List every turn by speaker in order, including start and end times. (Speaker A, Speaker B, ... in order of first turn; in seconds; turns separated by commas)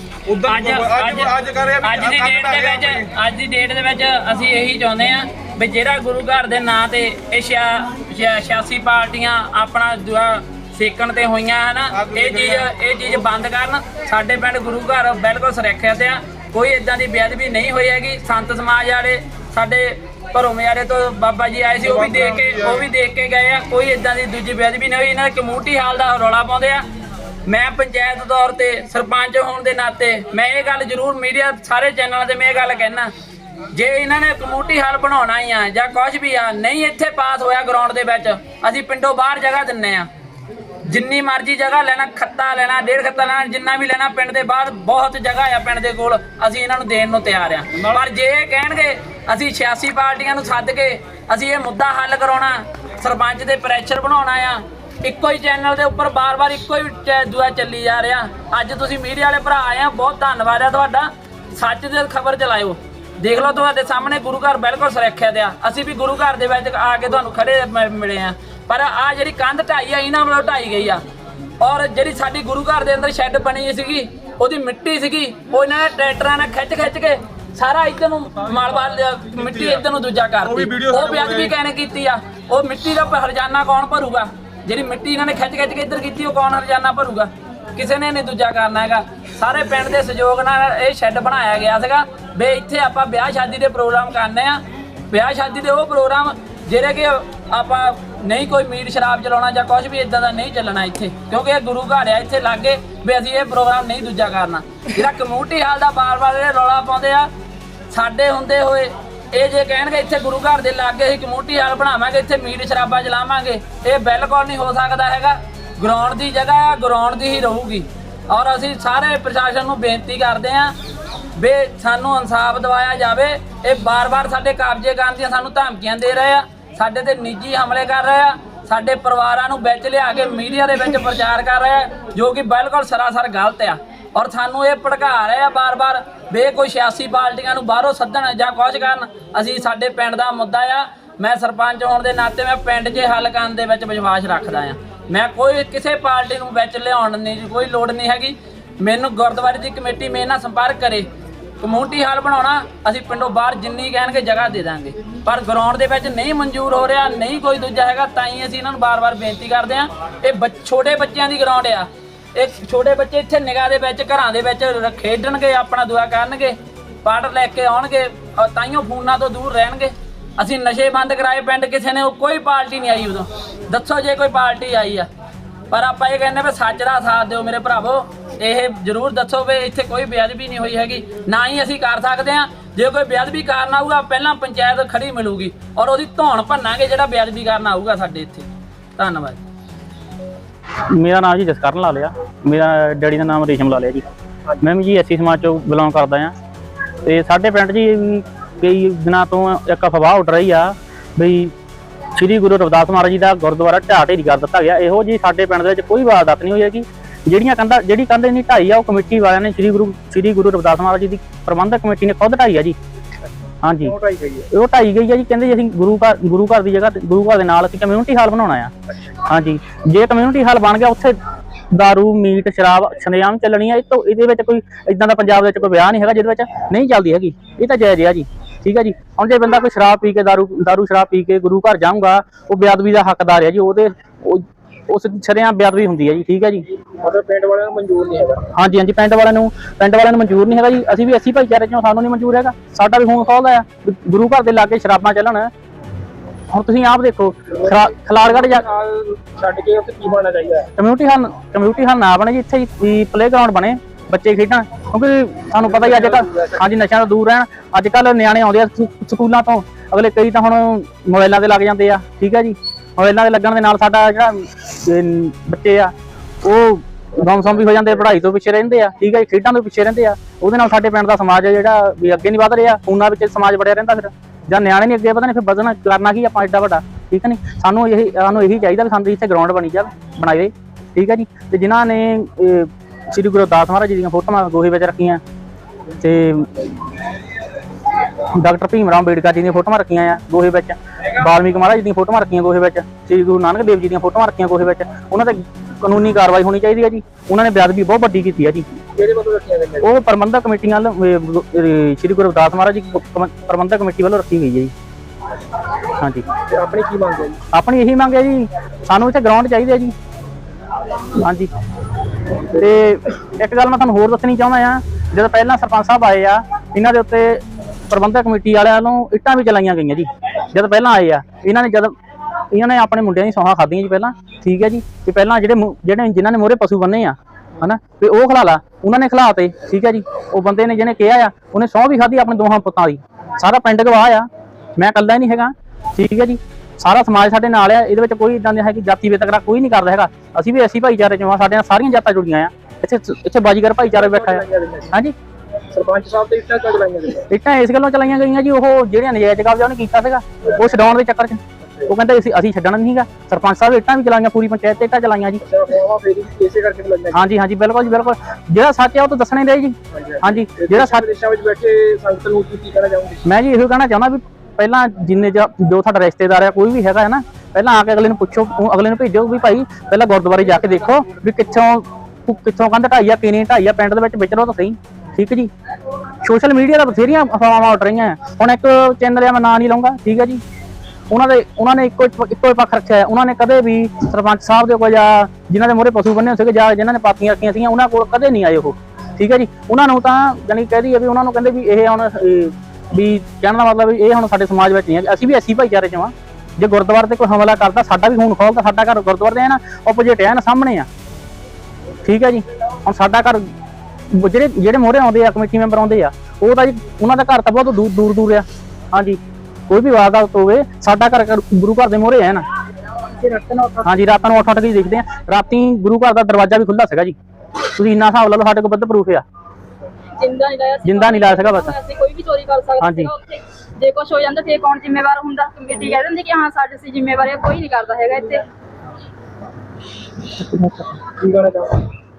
Speaker A: 0.3-3.1, Speaker B: 0.5-26.8, Speaker A: 11.9-12.7, Speaker A: 21.8-22.8, Speaker B: 27.5-33.1, Speaker B: 33.7-40.1, Speaker B: 40.9-71.0, Speaker B: 71.6-94.6, Speaker A: 78.4-79.8, Speaker A: 80.4-81.5, Speaker B: 95.1-107.3, Speaker B: 107.9-120.7, Speaker B: 121.4-151.1, Speaker B: 151.6-175.1, Speaker B: 175.7-189.4, Speaker C: 191.0-194.0, Speaker C: 194.6-196.3, Speaker C: 197.1-201.5, Speaker C: 202.2-212.8, Speaker C: 213.6-213.9, Speaker D: 213.8-214.4, Speaker C: 214.5-218.7, Speaker C: 219.2-221.1, Speaker C: 221.7-236.6, Speaker D: 237.0-238.4, Speaker C: 238.5-245.5, Speaker C: 246.5-248.7, Speaker D: 247.6-250.7, Speaker C: 250.8-264.3, Speaker D: 255.6-256.4, Speaker C: 264.9-265.9, Speaker C: 266.4-285.2, Speaker C: 286.0-286.5, Speaker C: 288.4-298.6, Speaker D: 298.9-299.9, Speaker C: 299.8-304.7, Speaker D: 306.5-307.4, Speaker C: 307.5-309.9, Speaker C: 311.2-311.5, Speaker C: 312.5-317.4, Speaker C: 317.9-321.9, Speaker C: 322.5-334.2, Speaker C: 334.8-345.1, Speaker D: 343.9-344.9, Speaker D: 345.7-347.2, Speaker C: 347.3-355.4, Speaker D: 355.4-357.3, Speaker C: 357.1-361.1, Speaker D: 359.9-363.2, Speaker C: 363.2-375.5, Speaker C: 376.2-380.4, Speaker C: 381.1-400.9, Speaker C: 402.1-403.4, Speaker C: 404.1-412.4, Speaker D: 413.2-413.9, Speaker C: 413.8-417.1, Speaker C: 417.8-419.2, Speaker E: 420.2-428.4, Speaker C: 420.9-421.7, Speaker C: 422.8-423.1, Speaker C: 430.4-431.0, Speaker D: 431.2-431.8